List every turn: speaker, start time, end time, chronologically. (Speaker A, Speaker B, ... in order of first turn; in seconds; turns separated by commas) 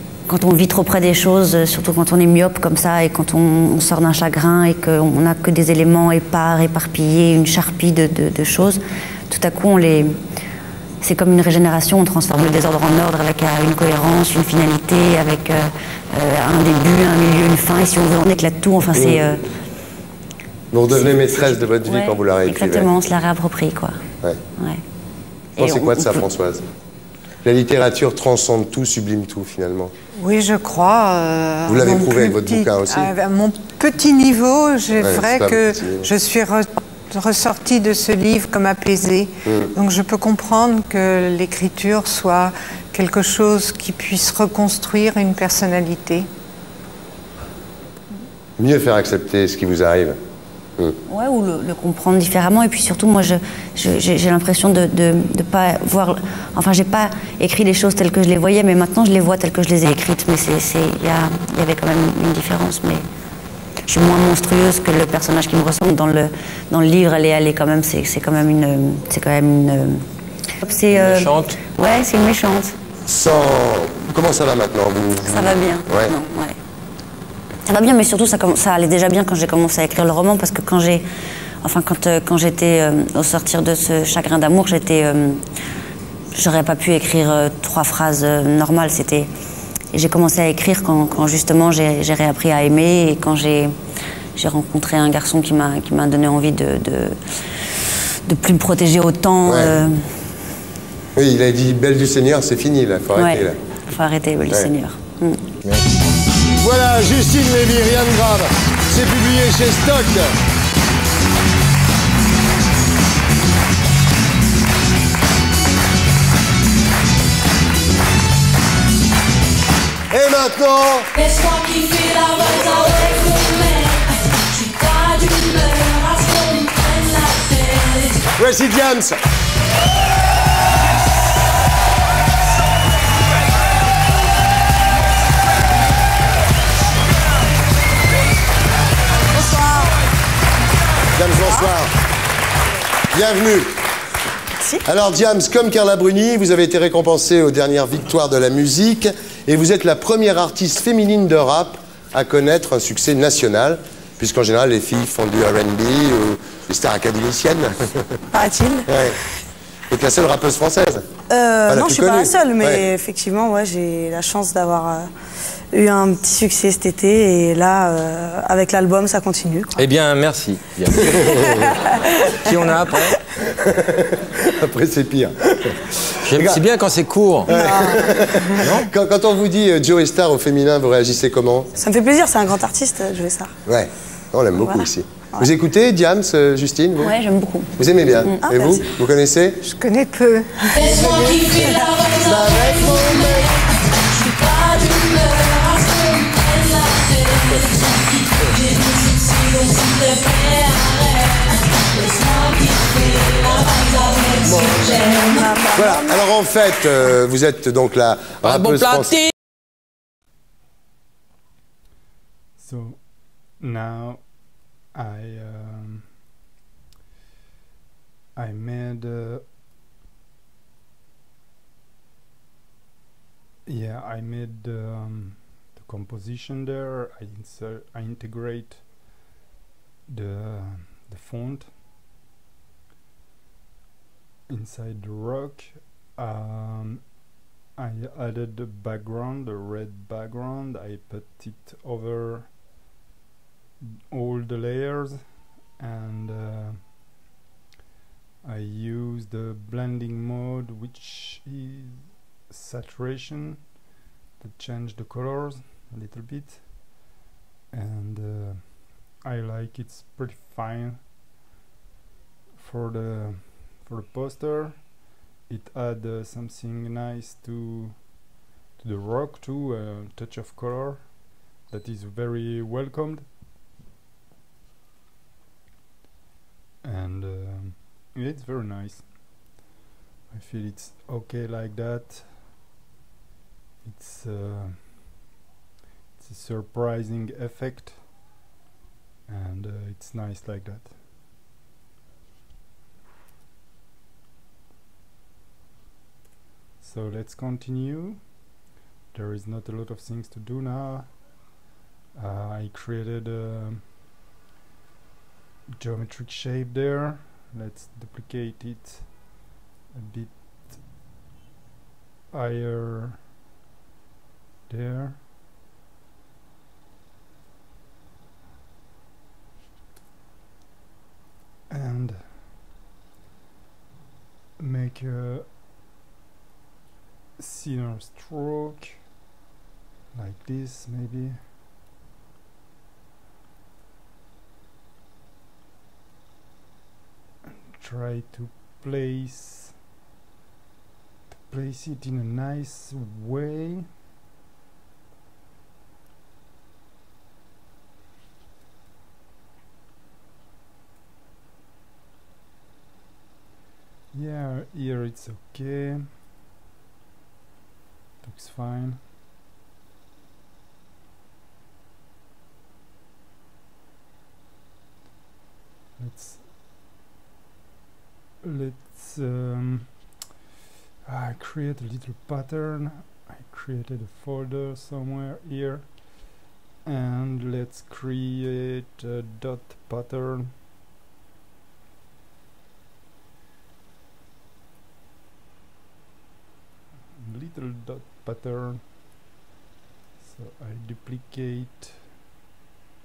Speaker A: 0.3-10.2, Speaker A: 11.0-19.4, Speaker B: 18.9-19.2, Speaker B: 20.7-22.9, Speaker A: 21.1-24.0, Speaker A: 24.6-24.8, Speaker A: 25.6-26.2, Speaker B: 25.6-26.6, Speaker B: 27.4-29.9, Speaker C: 30.2-46.3, Speaker B: 31.7-33.1, Speaker B: 35.0-36.1, Speaker B: 39.5-39.7, Speaker B: 48.6-50.2, Speaker A: 51.1-63.0, Speaker A: 63.9-70.1, Speaker A: 70.6-72.8, Speaker D: 70.9-71.6, Speaker B: 73.1-76.1, Speaker A: 75.2-76.6, Speaker A: 77.7-81.0, Speaker A: 81.6-85.4, Speaker A: 86.3-89.3, Speaker A: 89.9-93.8, Speaker A: 94.4-97.2, Speaker A: 98.3-100.2, Speaker B: 99.5-99.8, Speaker B: 101.2-103.6, Speaker A: 103.2-105.5, Speaker D: 105.7-106.0, Speaker B: 106.6-110.3, Speaker B: 120.1-121.1, Speaker E: 121.2-128.3, Speaker B: 128.4-129.2, Speaker F: 139.3-140.0, Speaker B: 141.1-141.9, Speaker B: 143.1-143.8, Speaker F: 144.6-144.8, Speaker B: 144.8-158.1, Speaker F: 158.3-159.1, Speaker B: 158.9-159.2, Speaker B: 159.9-161.1, Speaker F: 161.3-165.1, Speaker B: 161.7-162.8, Speaker F: 165.7-169.8, Speaker D: 169.8-171.4, Speaker F: 171.3-173.1, Speaker D: 172.3-173.2, Speaker B: 173.5-176.6, Speaker D: 176.2-177.5, Speaker F: 177.5-178.7, Speaker B: 177.5-181.7, Speaker D: 178.6-178.9, Speaker F: 181.8-183.5, Speaker B: 183.7-187.1, Speaker F: 184.5-185.5, Speaker A: 187.0-188.5, Speaker B: 187.8-189.6, Speaker F: 188.4-188.9, Speaker C: 189.6-191.9, Speaker E: 190.7-205.4, Speaker B: 192.2-193.5, Speaker B: 204.4-205.0, Speaker F: 205.2-206.3, Speaker B: 205.7-209.2, Speaker G: 212.6-216.2, Speaker G: 218.4-219.4, Speaker G: 223.7-229.2, Speaker G: 230.1-231.7, Speaker G: 234.5-237.2, Speaker G: 237.8-242.6, Speaker G: 243.8-247.0, Speaker G: 248.4-253.8, Speaker G: 254.4-257.1, Speaker G: 257.7-261.1, Speaker G: 262.6-273.3, Speaker G: 276.8-279.6, Speaker G: 280.3-282.5, Speaker G: 283.8-285.3, Speaker G: 286.2-288.2, Speaker G: 289.3-291.0, Speaker G: 296.8-298.4, Speaker G: 299.1-301.5, Speaker G: 302.1-303.9, Speaker G: 305.8-309.4, Speaker G: 309.9-310.9, Speaker G: 312.3-313.3, Speaker G: 314.7-315.2, Speaker G: 321.7-322.5, Speaker G: 324.6-325.5, Speaker G: 327.4-329.0, Speaker G: 330.1-331.4, Speaker G: 337.5-339.8, Speaker G: 341.3-343.9, Speaker G: 354.1-356.1, Speaker G: 358.2-359.0, Speaker G: 366.0-366.5, Speaker G: 368.4-370.1, Speaker G: 371.1-380.5, Speaker G: 387.1-388.9, Speaker G: 390.2-392.1